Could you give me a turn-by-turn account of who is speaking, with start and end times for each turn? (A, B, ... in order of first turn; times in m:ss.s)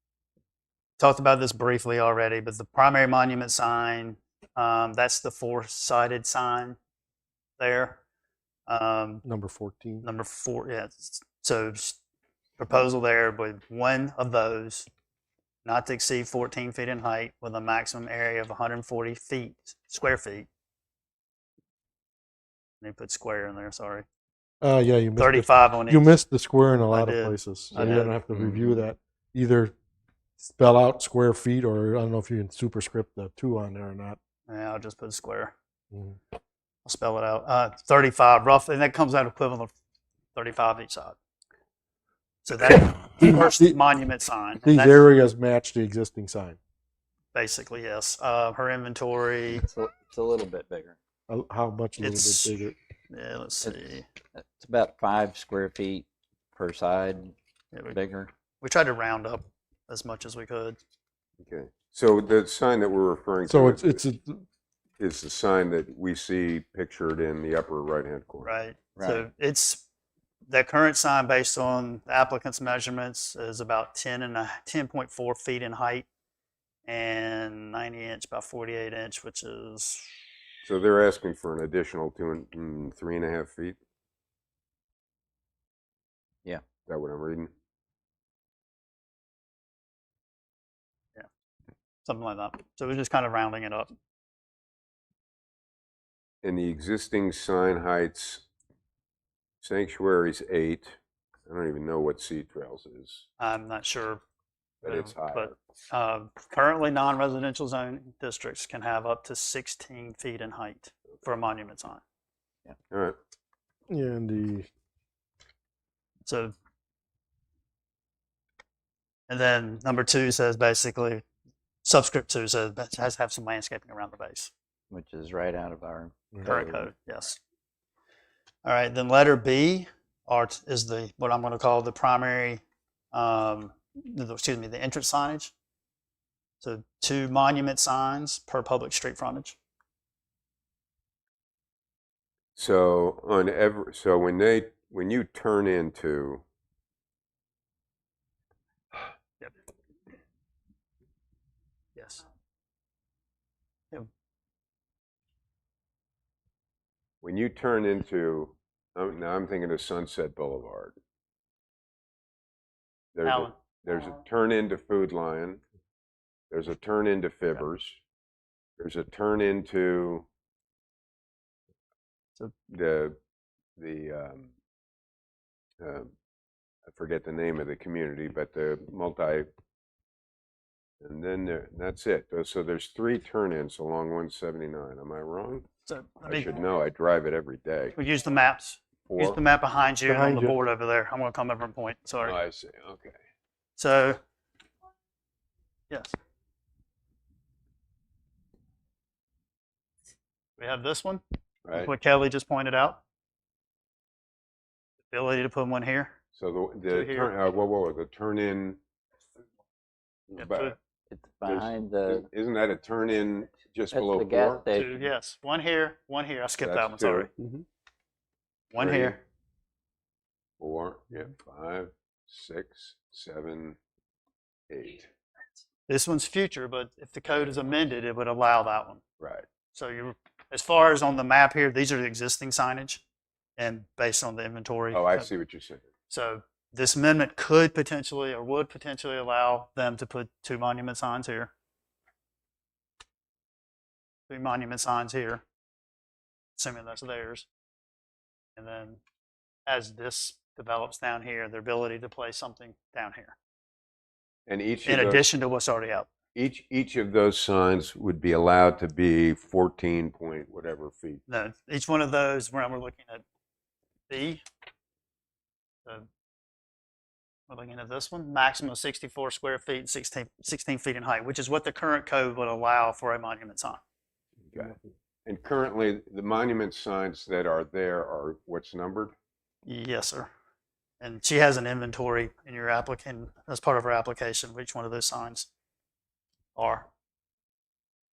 0:01.0-0:06.8 A
0:07.6-0:08.0 A
0:08.7-0:09.2 A
0:09.2-0:10.0 B
0:10.0-0:12.0 A
0:12.6-0:14.9 A
0:15.6-0:20.5 A
0:22.8-0:24.1 A
0:24.6-0:29.7 B
0:25.2-0:26.2 A
0:26.9-0:28.1 A
0:27.7-0:28.8 C
0:30.4-0:34.2 B
0:34.5-0:35.5 A
0:35.9-0:36.2 B
0:36.8-0:39.7 A
0:40.3-0:41.2 A
0:42.4-0:45.0 A
0:43.2-0:43.8 B
0:44.6-0:46.6 B
0:47.3-0:49.6 A
0:49.5-0:51.0 C
0:51.3-0:52.8 B
0:52.0-0:52.6 A
0:53.1-0:54.0 A
0:53.6-0:57.3 C
0:57.7-0:58.0 A
0:57.9-0:58.3 C
0:58.6-1:00.8 A
1:01.4-1:04.0 D
1:03.5-1:04.4 B
1:05.0-1:08.5 D
1:08.4-1:09.8 A
1:09.0-1:09.3 C
1:10.5-1:16.1 A
1:16.9-1:20.1 A
1:20.6-1:23.8 D
1:26.9-1:27.5 D
1:32.0-1:33.9 A
1:36.4-1:38.4 D
1:39.6-1:43.2 D
1:43.4-1:44.2 A
1:44.8-1:45.5 D
1:44.8-1:52.0 A
1:52.9-1:53.2 D
1:53.9-1:54.7 B
1:56.3-1:56.5 A
1:59.3-2:01.2 A
2:01.8-2:04.5 A
2:04.9-2:06.8 C
2:06.4-2:07.4 A
2:08.6-2:12.6 A
2:13.1-2:15.5 A
2:16.6-2:19.6 A
2:22.6-2:26.4 D
2:32.0-2:32.2 A
2:37.2-2:40.9 D
2:43.2-2:45.6 D
2:43.2-2:43.6 A
2:46.5-2:48.0 D
2:48.8-2:50.2 D
2:52.7-2:53.2 D
2:53.8-2:54.5 D
2:55.8-2:56.1 D
2:56.8-2:59.5 D
3:01.0-3:05.7 D
3:05.8-3:06.5 A
3:06.2-3:08.0 D
3:08.0-3:12.4 A
3:09.1-3:09.4 D
3:10.1-3:10.6 B
3:12.2-3:13.2 D
3:13.8-3:14.2 A
3:15.9-3:16.2 A
3:20.6-3:21.2 A
3:21.7-3:21.9 D
3:21.7-3:23.0 A
3:25.1-3:26.1 A
3:26.3-3:28.8 D
3:26.9-3:27.3 A
3:30.3-3:30.8 D
3:30.4-3:30.8 A
3:31.1-3:32.2 C
3:31.4-3:34.7 D
3:33.9-3:35.0 C
3:34.7-3:37.3 A
3:36.6-3:37.3 D
3:38.7-3:39.2 A
3:38.8-3:39.2 D
3:40.6-3:43.8 D
3:44.7-3:45.1 D
3:45.9-3:49.0 A
3:49.2-3:49.4 D
3:49.7-3:53.0 A
3:53.6-3:55.3 A
3:54.9-3:55.9 D
3:56.1-4:01.5 A
4:04.3-4:05.4 A
4:06.6-4:07.5 A
4:08.6-4:09.0 A
4:09.7-4:13.3 A
4:14.5-4:15.2 D
4:14.9-4:16.1 A
4:16.3-4:21.2 D
4:21.3-4:23.2 A
4:24.1-4:24.4 A
4:27.5-4:33.8 A
4:34.5-4:39.1 D
4:39.6-4:40.3 A
4:41.0-4:45.5 A
4:46.6-4:46.9 A